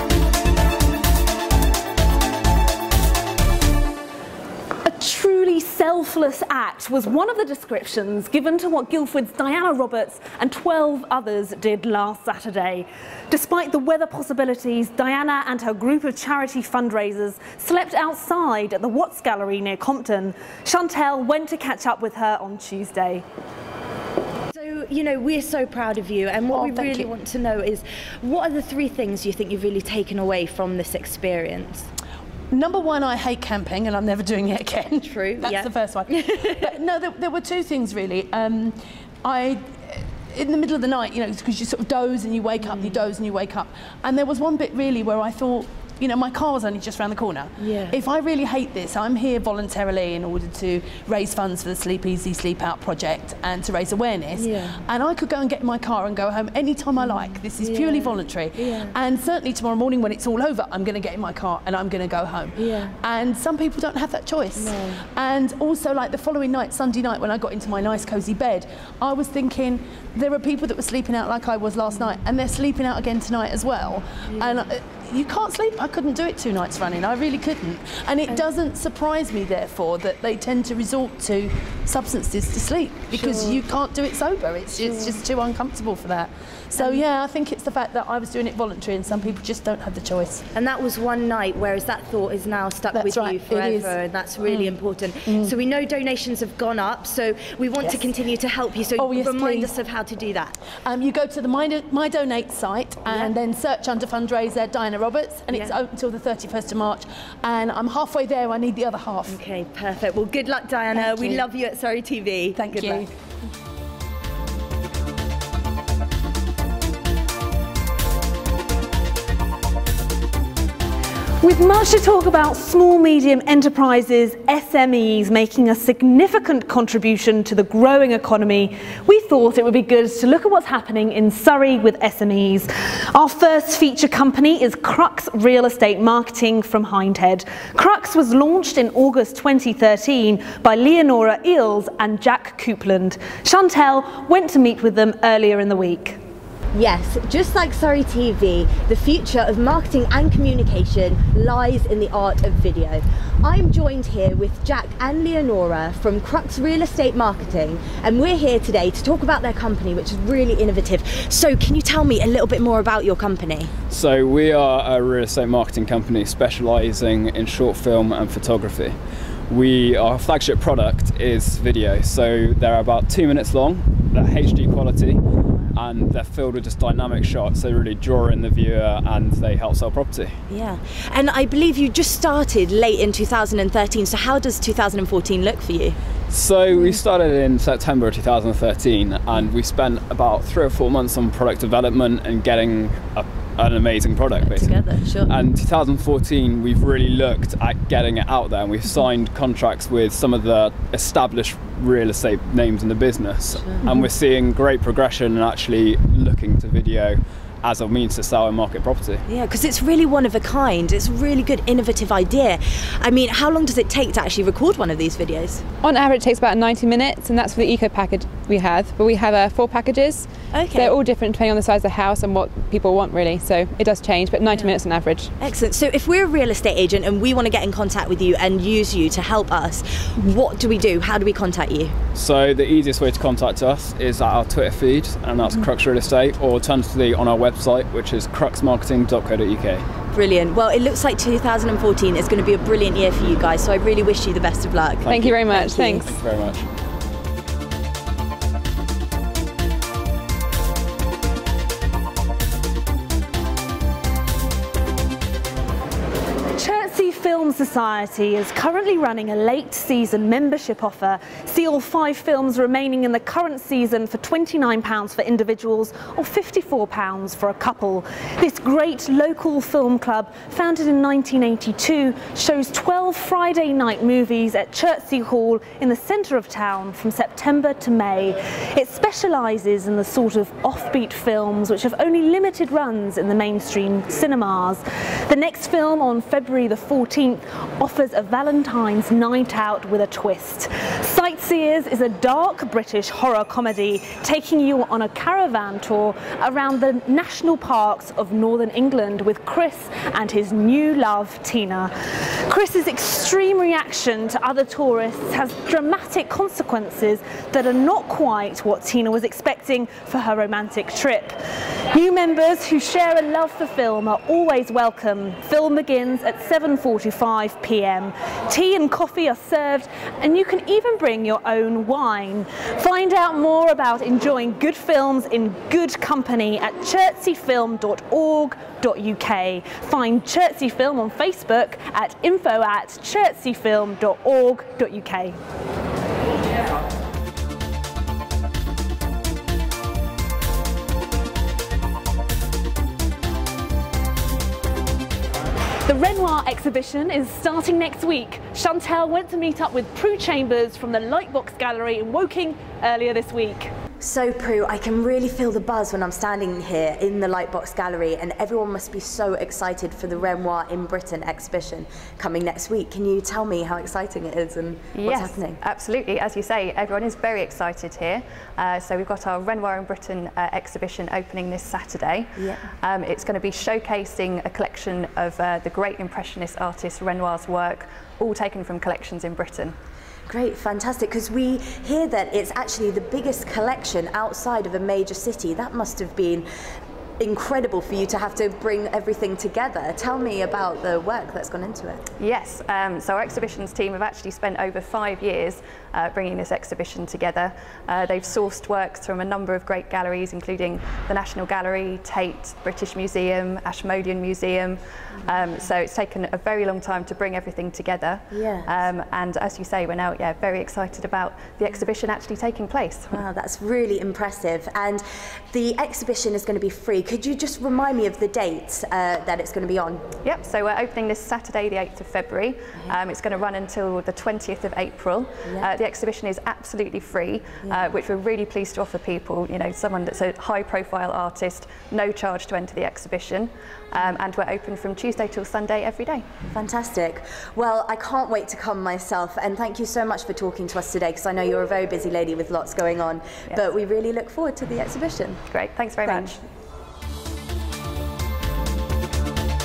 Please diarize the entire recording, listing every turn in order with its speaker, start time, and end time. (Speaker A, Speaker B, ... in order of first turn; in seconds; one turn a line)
Speaker A: 4.8-23.2
Speaker B: 24.5-31.9
Speaker C: 26.5-27.1
Speaker C: 32.5-90.5
Speaker B: 35.0-36.7
Speaker B: 42.6-43.1
Speaker B: 47.6-48.0
Speaker B: 54.3-54.8
Speaker B: 57.0-59.0
Speaker B: 62.6-62.9
Speaker B: 64.5-65.0
Speaker B: 74.3-74.6
Speaker B: 83.1-83.6
Speaker B: 84.7-85.2
Speaker B: 86.8-87.0
Speaker B: 90.5-100.6
Speaker C: 92.9-95.5
Speaker C: 97.8-98.1
Speaker C: 98.9-99.8
Speaker C: 100.8-109.4
Speaker B: 103.0-103.3
Speaker B: 109.2-113.1
Speaker C: 111.0-111.4
Speaker C: 112.5-113.1
Speaker A: 121.4-146.2
Speaker B: 146.7-163.7
Speaker D: 163.9-168.9
Speaker D: 169.5-175.2
Speaker D: 175.7-180.4
Speaker B: 180.5-186.0
Speaker D: 186.3-209.2
Speaker B: 186.7-187.0
Speaker B: 194.4-195.4
Speaker B: 203.5-204.1
Speaker B: 209.3-215.6
Speaker E: 215.8-225.3
Speaker B: 220.5-221.0
Speaker B: 224.5-224.8
Speaker B: 225.4-231.9
Speaker D: 232.1-239.8
Speaker B: 240.1-246.1
Speaker D: 245.0-246.7
Speaker E: 245.1-246.0
Speaker A: 256.5-301.9
Speaker A: 302.4-311.4
Speaker A: 311.9-335.4
Speaker A: 345.9-353.7
Speaker B: 354.0-365.6
Speaker F: 364.9-379.7
Speaker B: 372.4-372.6
Speaker B: 380.3-386.4
Speaker B: 387.2-392.0
Speaker F: 392.2-413.1
Speaker B: 408.3-408.9
Speaker B: 413.1-420.0
Speaker F: 420.2-436.3
Speaker B: 427.6-427.9
Speaker B: 436.5-445.4
Speaker F: 445.5-446.4
Speaker B: 446.0-446.3